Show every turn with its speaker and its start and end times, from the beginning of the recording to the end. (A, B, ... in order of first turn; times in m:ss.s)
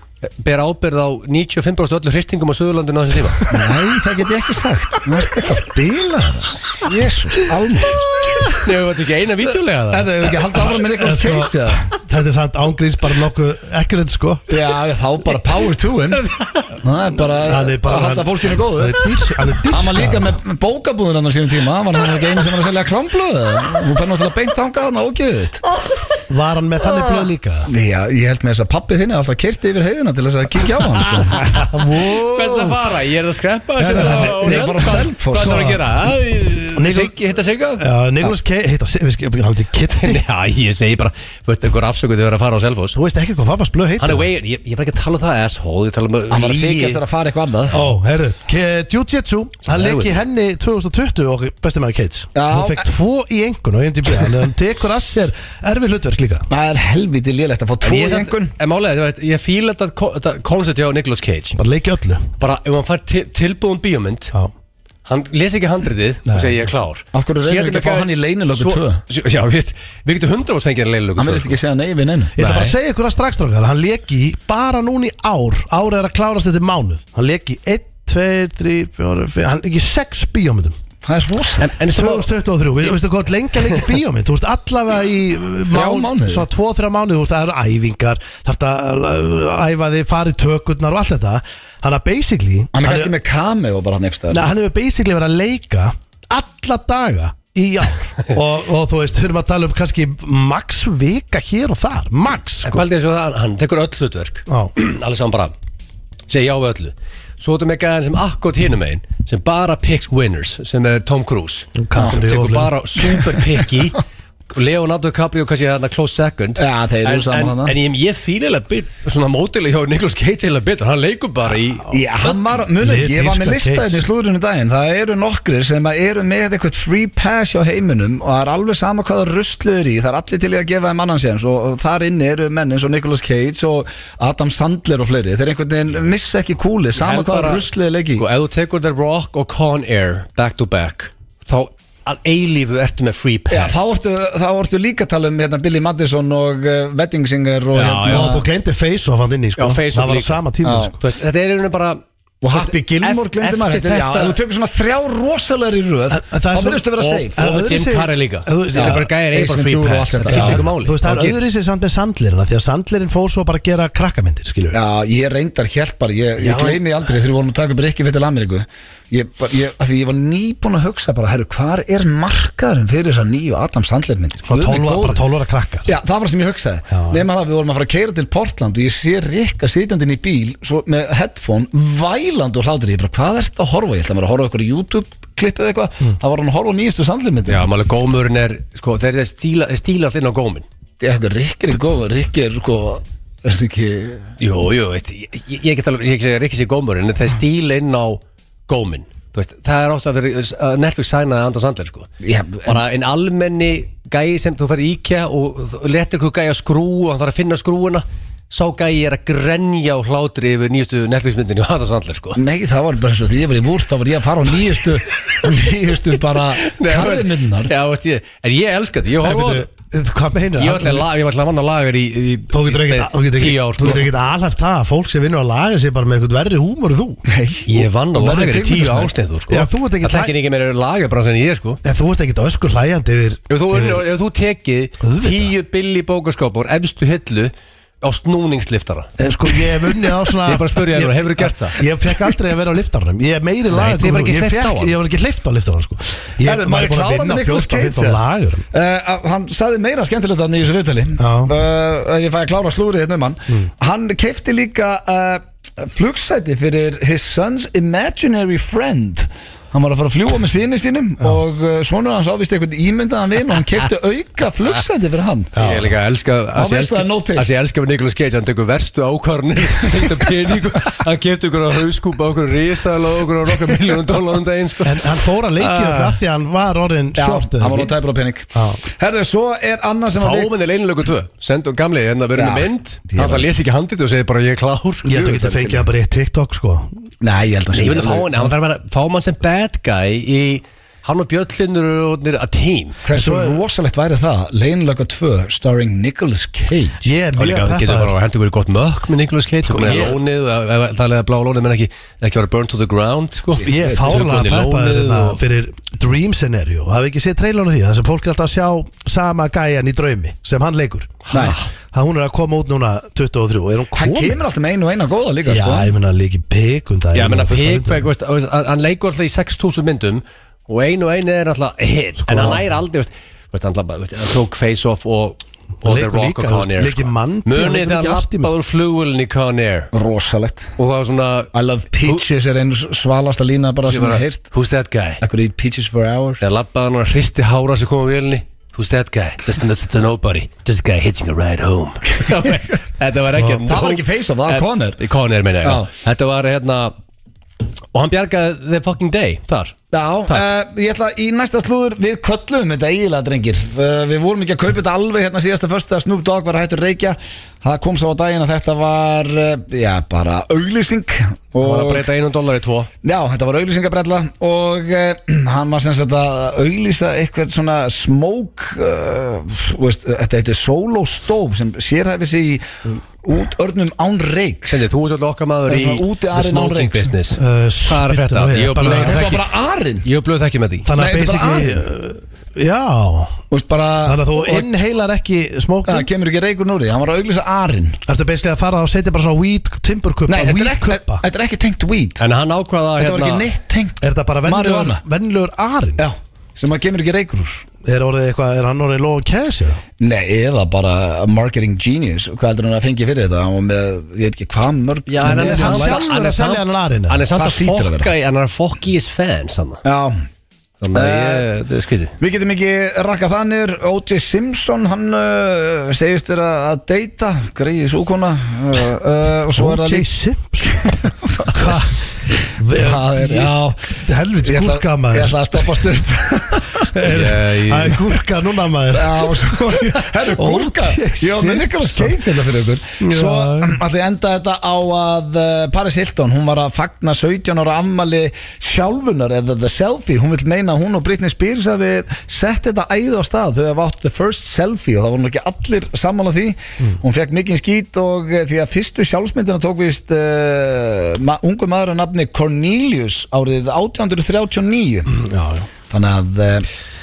0:00.4-0:03.5 A
0:03.5-0:08.6 B
0:08.6-0:10.3 A
0:09.9-0:11.9 B
0:10.8-0:14.4 C
0:14.5-0:16.2 B
0:16.3-0:16.7 A
0:16.8-0:19.0 B
0:17.4-0:20.4 C
0:19.7-0:25.6 B
0:26.3-0:27.7 C
0:27.7-0:31.4 B
0:31.5-0:32.8 C
0:32.2-0:37.8 A
0:33.8-0:35.8 C
0:34.0-0:35.7 B
0:36.8-0:37.1 C
0:37.8-0:40.2 C
0:39.9-0:43.0 A
0:42.9-0:44.3 C
0:44.0-0:47.0 A
0:46.3-0:47.8 B
0:47.7-0:56.5 C
0:49.7-0:50.2 A
0:52.4-0:52.8 B
0:56.5-0:58.5 B
0:57.8-1:01.6 A
1:01.6-1:02.3 C
1:02.4-1:04.3 A
1:05.1-1:11.6 A
1:06.3-1:06.6 C
1:07.1-1:09.0 B
1:11.2-1:12.6 B
1:12.4-1:20.8 C
1:12.4-1:12.7 A
1:21.0-1:21.7 B
1:21.6-1:22.3 A
1:21.8-1:33.1 C
1:25.7-1:26.5 B
1:32.7-1:34.4 B
1:34.3-1:42.8 C
1:42.6-1:45.5 A
1:44.5-1:44.7 C
1:46.3-1:54.0 A
1:51.8-1:52.8 C
1:54.5-2:02.4 A
1:56.6-1:57.8 B
2:01.9-2:18.2 B
2:02.8-2:04.0 C
2:17.0-2:23.9 A
2:23.5-2:28.4 B
2:27.8-2:28.4 A
2:28.0-2:31.0 C
2:29.6-2:30.4 A
2:30.6-2:30.9 B
2:31.0-2:34.4 A
2:32.4-2:37.4 B
2:36.1-2:39.1 C
2:37.0-2:41.4 A
2:38.7-2:40.6 B
2:40.3-2:44.8 C
2:44.7-2:55.2 B
2:46.4-2:46.8 A
2:54.5-2:55.9 C
2:55.9-3:07.6 B
2:56.9-2:57.2 C
3:07.5-3:10.7 A
3:11.0-3:14.3 B
3:14.4-3:22.1 A
3:22.2-3:22.8 B
3:22.7-3:32.4 A
3:32.4-3:37.7 B
3:36.6-3:39.7 A
3:39.2-3:41.1 C
3:40.6-3:44.1 A
3:42.5-3:47.2 C
3:47.3-3:49.1 B
3:47.7-3:51.8 A
3:49.5-3:50.3 C
3:51.8-3:54.0 C
3:53.5-3:59.1 A
3:55.0-3:55.5 C
3:59.2-4:08.6 C
3:59.9-4:01.8 A
4:03.7-4:05.0 A
4:06.4-4:08.2 B
4:08.7-4:25.5 B
4:11.2-4:11.5 C
4:25.6-4:25.9 C
4:25.6-4:36.2 A
4:26.6-4:27.5 B
4:34.8-4:37.9 C
4:37.2-4:40.5 B
4:38.5-4:38.8 C
4:40.2-4:45.2 A
4:42.4-4:43.5 B
4:45.0-4:46.9 C
4:45.1-4:45.8 B
4:47.2-4:48.5 B
4:47.8-4:53.0 A
4:53.0-4:57.0 B
4:53.1-4:53.6 C
4:57.0-4:58.1 C
4:57.4-5:05.4 A
4:59.7-5:00.2 C
5:03.5-5:04.2 B
5:03.6-5:11.2 C
5:11.3-5:11.7 A
5:11.3-5:11.6 B
5:11.9-5:14.4 C
5:13.9-5:15.9 B
5:15.5-5:18.1 C
5:17.1-5:29.9 A
5:22.2-5:22.6 C
5:25.8-5:28.5 C
5:29.9-5:30.7 B
5:30.8-5:32.3 A
5:31.5-5:34.4 B
5:33.9-5:35.2 A
5:35.2-5:36.4 B
5:36.4-5:46.9 A
5:42.2-5:42.8 B
5:43.6-5:45.0 B
5:47.9-5:49.8 A
5:49.9-6:02.1 B
6:01.6-6:02.9 A
6:03.0-6:14.9 B
6:14.7-6:19.5 A
6:15.7-6:17.1 B
6:17.4-6:19.2 C
6:18.8-6:20.1 B
6:20.0-6:20.9 A
6:20.8-6:23.4 C
6:21.0-6:21.8 B
6:23.5-6:24.7 B
6:24.0-6:26.1 C
6:25.9-6:28.0 B
6:28.1-6:31.2 C
6:30.3-6:32.2 B
6:32.2-6:33.5 A
6:33.0-6:35.0 B
6:34.0-6:36.1 C
6:36.0-6:37.7 B
6:37.8-6:39.8 C
6:40.0-6:46.1 B
6:45.1-6:49.8 A
6:45.2-6:47.3 C
6:47.3-6:48.1 B
6:49.8-6:50.2 B
6:50.8-6:52.2 A
6:50.9-6:51.4 B
6:52.2-7:00.1 B
6:59.6-7:02.0 C
7:01.0-7:01.8 B
7:02.5-7:06.9 B
7:02.6-7:05.7 C
7:06.9-7:12.3 C
7:07.0-7:08.0 A
7:08.9-7:35.1 B
7:13.0-7:13.8 C
7:35.1-7:35.7 C
7:35.9-7:36.7 B